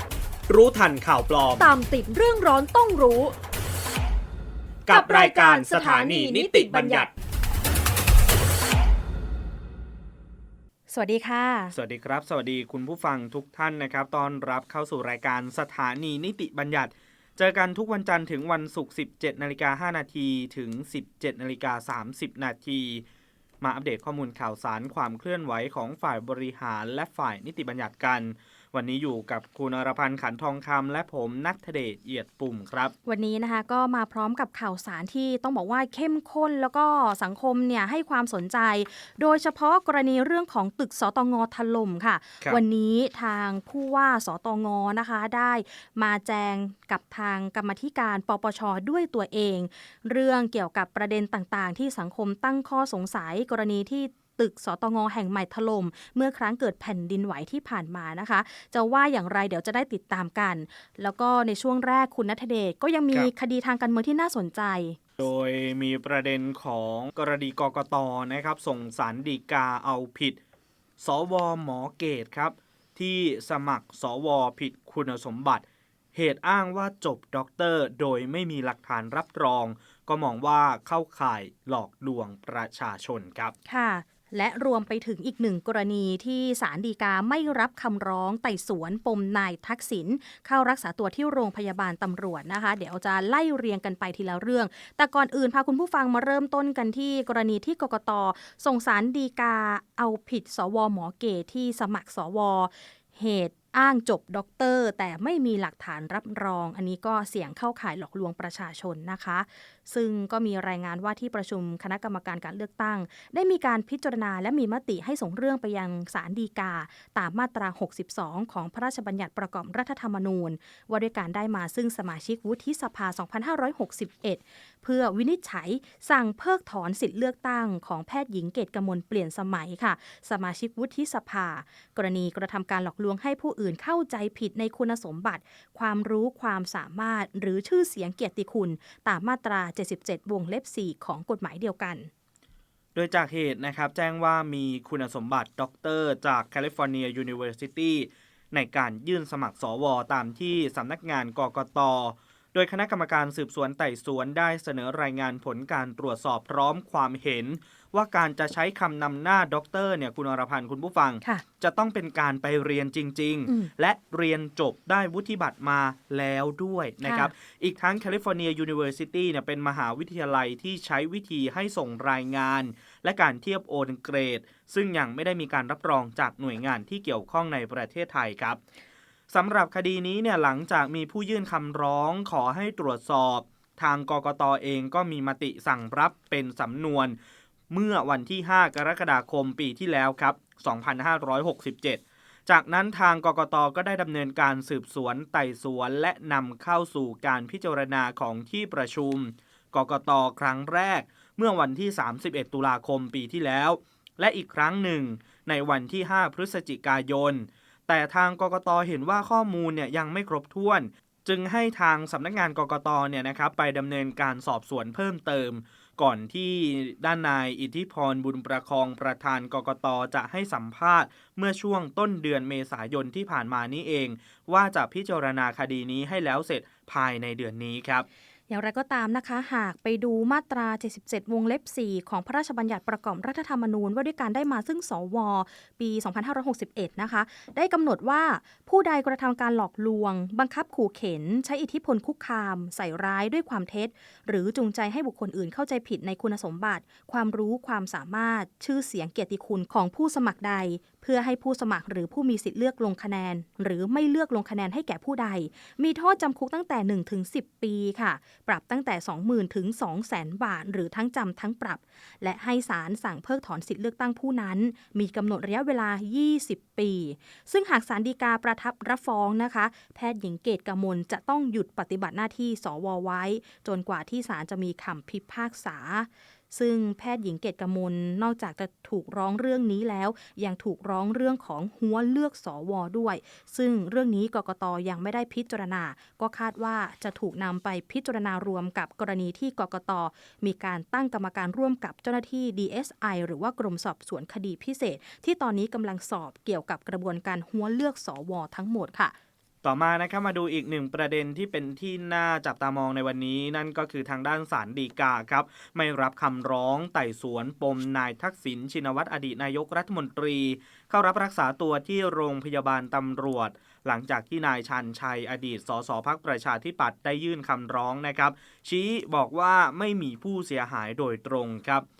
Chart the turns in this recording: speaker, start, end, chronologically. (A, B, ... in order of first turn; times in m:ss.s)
0:00.5-0:01.7 A
0:01.6-0:03.3 B
0:04.9-0:07.1 A
0:04.9-0:07.1 B
0:10.9-0:11.8 C
0:11.7-0:23.0 A
0:23.6-0:32.9 A
0:33.0-1:05.0 C
1:05.2-1:10.4 A
1:11.0-1:23.5 A
1:23.7-2:22.1 C
2:23.0-2:58.6 A
2:47.0-2:47.3 C
2:59.3-3:07.2 A
3:07.7-3:48.1 A
3:48.5-4:59.2 C
4:59.6-5:21.8 A